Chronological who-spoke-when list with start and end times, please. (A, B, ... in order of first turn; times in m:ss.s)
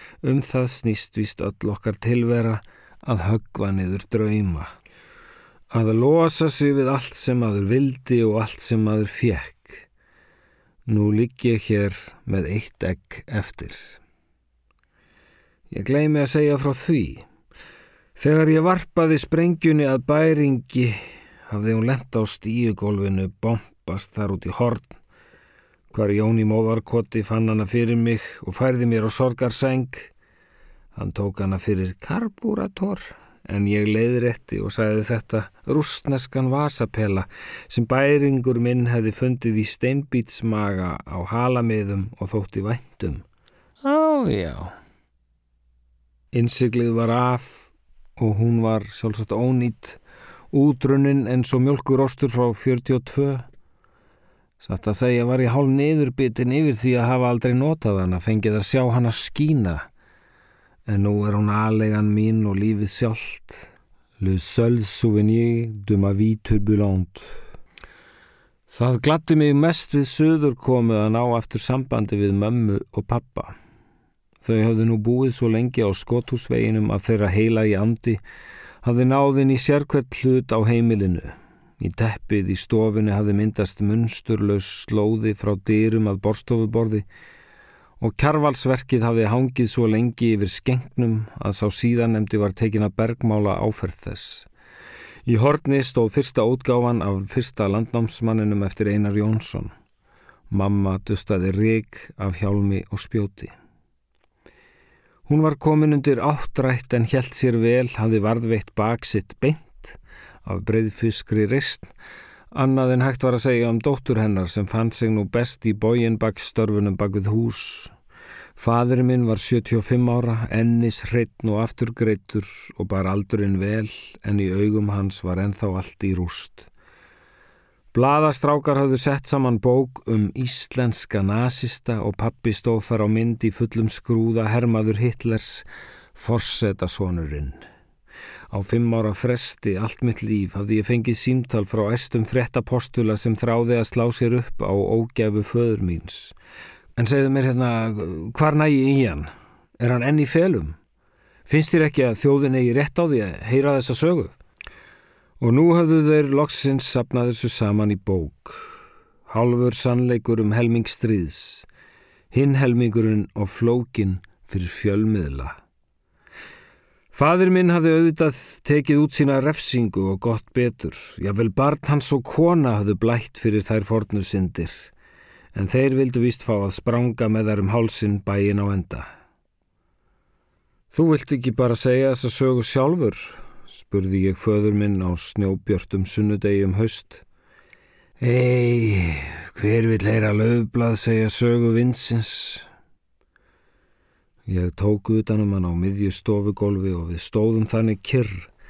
0:00.2-0:04.7 A
0:05.7-0:09.9 A
0:10.9-0:14.0 A
0:15.7-0:17.2 A
0:18.2-0:25.0 A
0:25.9-0:30.1 A
0:31.0-0:43.2 A
0:43.8-0:44.8 A
0:46.3-0:50.0 A
0:50.5-0:53.5 A
0:54.6-0:59.9 A
1:00.9-1:07.4 A
1:08.7-1:13.6 A
1:14.4-1:18.2 A
1:18.8-1:27.0 A
1:28.0-1:34.5 A
1:35.3-1:39.7 A
1:40.5-1:43.5 A
1:45.3-1:51.9 A
1:52.5-1:57.9 A
1:58.6-2:06.7 A
2:07.9-2:17.6 A
2:18.5-2:26.4 A
2:27.0-2:30.8 A
2:31.5-2:34.4 A
2:35.4-2:41.7 A
2:42.3-2:45.6 A
2:47.1-2:54.9 A
2:55.5-2:59.1 A
3:00.9-3:07.2 A
3:08.2-3:12.7 A
3:14.5-3:18.5 A